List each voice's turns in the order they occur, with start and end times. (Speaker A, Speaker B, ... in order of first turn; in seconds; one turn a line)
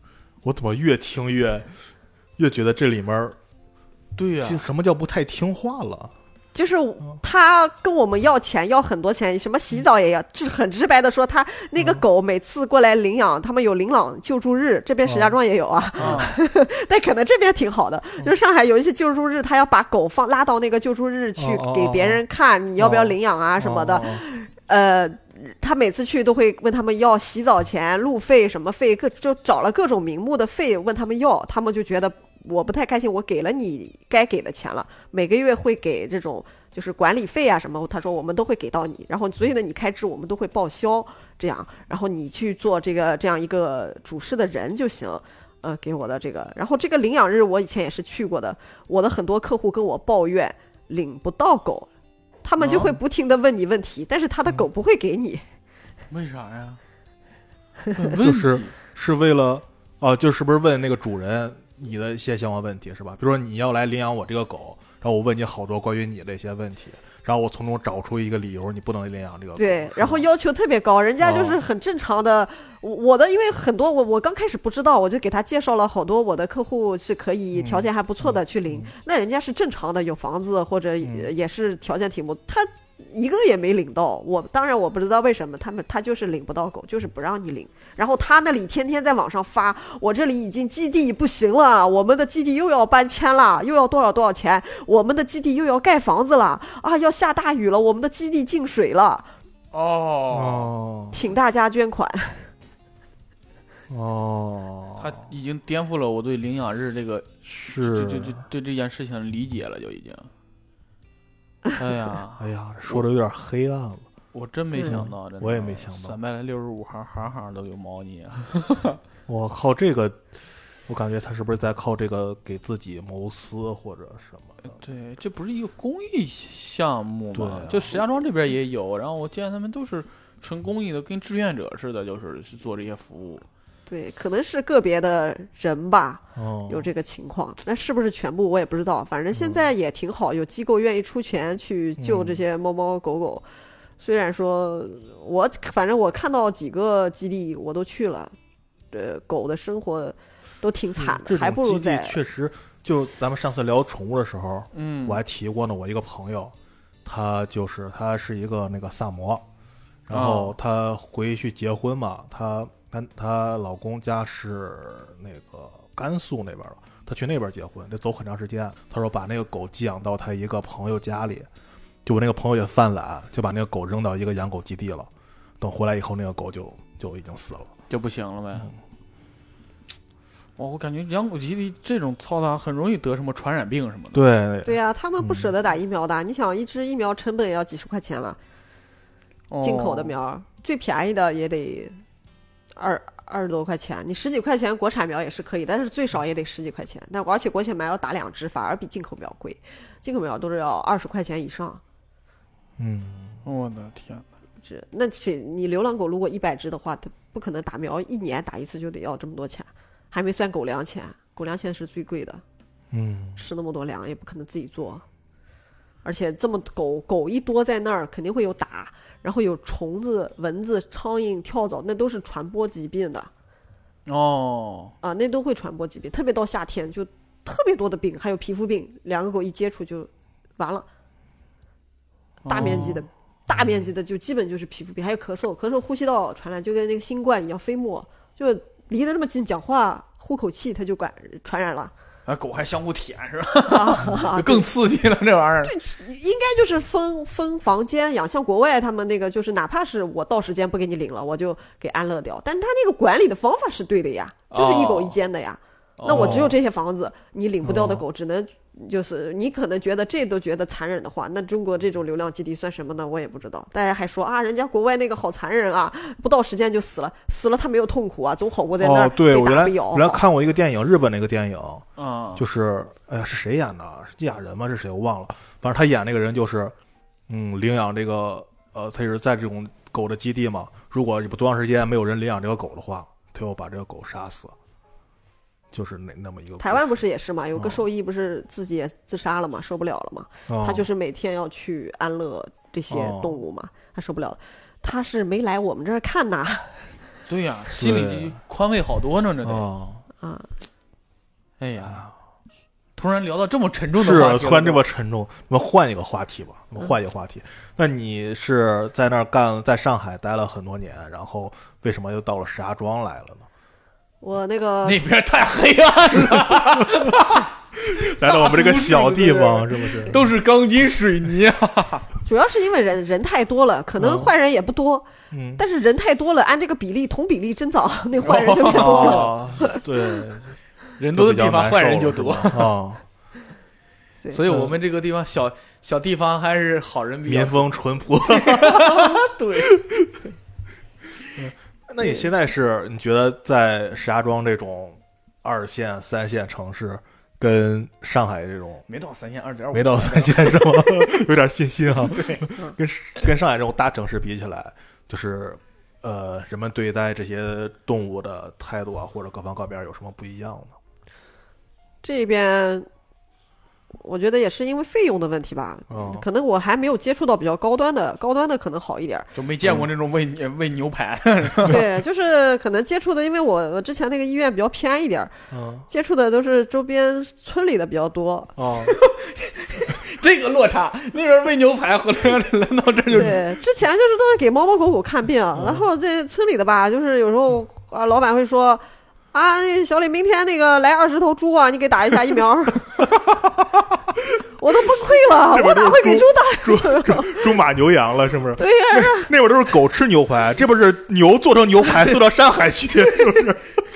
Speaker A: 0.4-1.7
Speaker A: 2.4-3.4
Speaker B: 4.2-4.6
Speaker A: 4.4-6.1
Speaker C: 6.5-51.9
Speaker A: 15.1-15.3
Speaker B: 16.0-16.4
Speaker A: 16.0-16.3
Speaker A: 21.4-22.2
Speaker A: 22.8-24.2
Speaker C: 52.4-55.4
Speaker B: 52.6-53.0
Speaker B: 56.1-56.8
Speaker B: 58.0-58.7
Speaker A: 58.2-70.2
Speaker C: 69.6-99.3
Speaker A: 71.2-71.6
Speaker A: 77.5-78.9
Speaker A: 81.0-81.3
Speaker B: 99.7-100.7
Speaker A: 100.3-101.2
Speaker C: 101.1-102.5
Speaker A: 103.9-105.2
Speaker B: 105.0-110.3
Speaker A: 107.5-108.5
Speaker B: 111.8-113.0
Speaker A: 112.4-114.1
Speaker B: 114.3-119.0
Speaker A: 114.8-116.2
Speaker A: 119.3-120.3
Speaker A: 120.9-124.6
Speaker B: 124.6-133.4
Speaker A: 127.3-128.0
Speaker C: 133.9-143.4
Speaker A: 136.4-136.9
Speaker A: 139.3-139.7
Speaker A: 142.0-142.4
Speaker C: 144.0-148.3
Speaker C: 148.9-152.2
Speaker A: 151.0-156.5
Speaker B: 154.7-155.2
Speaker A: 157.1-159.4
Speaker A: 160.1-171.5
Speaker B: 160.1-160.6
Speaker A: 172.1-175.1
Speaker A: 175.6-177.7
Speaker B: 177.9-178.7
Speaker B: 180.6-184.2
Speaker A: 184.1-185.5
Speaker C: 184.7-188.4
Speaker B: 189.5-190.1
Speaker C: 189.6-192.0
Speaker C: 192.8-201.8
Speaker A: 202.8-203.4
Speaker B: 203.4-204.2
Speaker C: 204.6-212.4
Speaker A: 212.9-213.4
Speaker C: 213.4-215.0
Speaker C: 216.0-223.3
Speaker B: 224.1-224.9
Speaker C: 225.0-230.9
Speaker B: 232.5-233.0
Speaker C: 232.5-241.9
Speaker A: 232.6-233.0
Speaker A: 233.5-233.8
Speaker B: 242.3-245.8
Speaker C: 243.7-244.7
Speaker C: 245.6-270.2
Speaker B: 254.5-255.2
Speaker B: 256.0-256.5
Speaker A: 256.1-256.6
Speaker A: 257.6-258.0
Speaker A: 268.8-276.8
Speaker B: 272.0-272.4
Speaker A: 277.3-284.5
Speaker A: 285.7-286.9
Speaker C: 286.6-296.9
Speaker A: 287.6-287.8
Speaker A: 290.5-290.9
Speaker A: 292.9-293.4
Speaker B: 297.3-299.7
Speaker A: 297.7-298.4
Speaker A: 299.4-300.0
Speaker C: 300.2-300.5
Speaker B: 301.6-302.0
Speaker A: 301.8-302.1
Speaker B: 303.0-304.8
Speaker A: 303.9-313.5
Speaker C: 314.2-315.1
Speaker B: 314.8-322.1
Speaker A: 316.8-317.3
Speaker A: 317.8-320.3
Speaker C: 322.2-329.8
Speaker A: 324.0-324.3
Speaker A: 325.3-325.6
Speaker B: 328.2-329.3
Speaker A: 328.7-330.6
Speaker B: 331.0-332.7
Speaker A: 331.1-333.0
Speaker B: 334.3-339.8
Speaker A: 334.5-334.7
Speaker A: 337.3-340.1
Speaker A: 341.4-348.9
Speaker B: 348.9-351.1
Speaker A: 349.7-360.8
Speaker B: 351.9-352.5
Speaker C: 362.0-362.9
Speaker C: 364.0-369.3
Speaker A: 365.9-366.2
Speaker B: 369.3-371.8
Speaker A: 369.6-369.9
Speaker C: 371.7-375.3
Speaker A: 375.5-375.9
Speaker C: 375.9-378.5
Speaker A: 378.6-379.0
Speaker B: 378.8-383.5
Speaker C: 383.1-392.9
Speaker A: 385.6-385.8
Speaker C: 394.6-397.5
Speaker A: 395.3-403.6
Speaker C: 398.6-399.3
Speaker B: 403.1-403.5